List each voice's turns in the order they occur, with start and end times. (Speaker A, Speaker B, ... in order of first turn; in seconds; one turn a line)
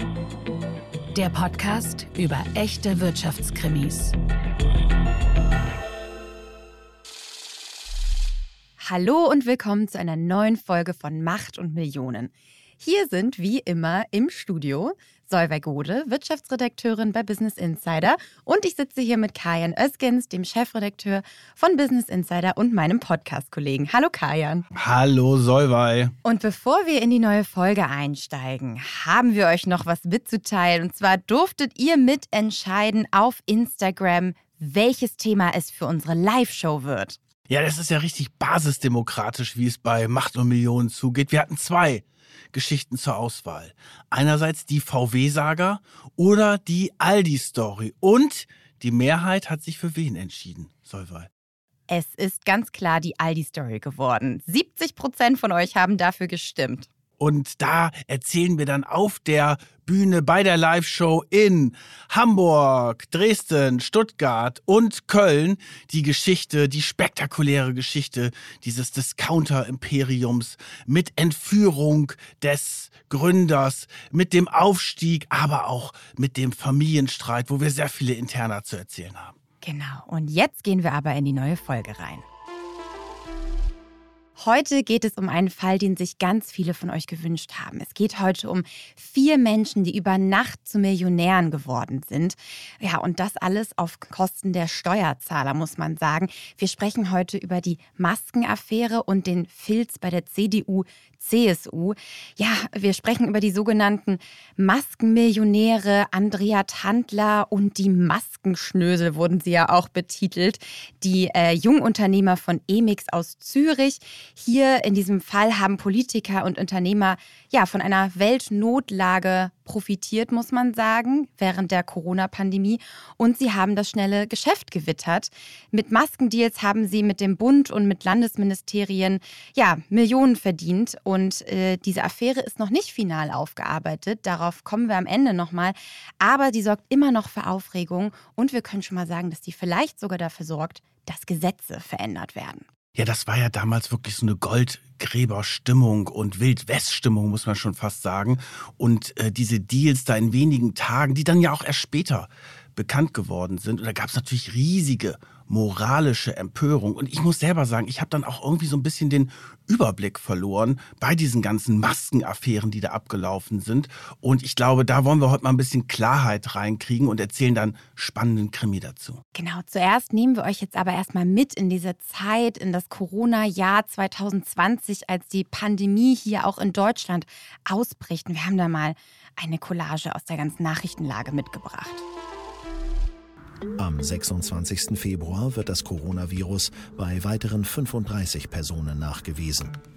Speaker A: 1.1-4.2
Speaker B: 8.8-24.6
Speaker C: 24.7-26.1
Speaker B: 26.2-37.2
Speaker C: 37.5-51.3
Speaker B: 51.9-56.9
Speaker C: 57.2-79.3
Speaker B: 79.6-82.2
Speaker B: 84.4-142.7
Speaker C: 142.9-169.2
Speaker B: 169.3-182.0
Speaker D: 183.8-189.8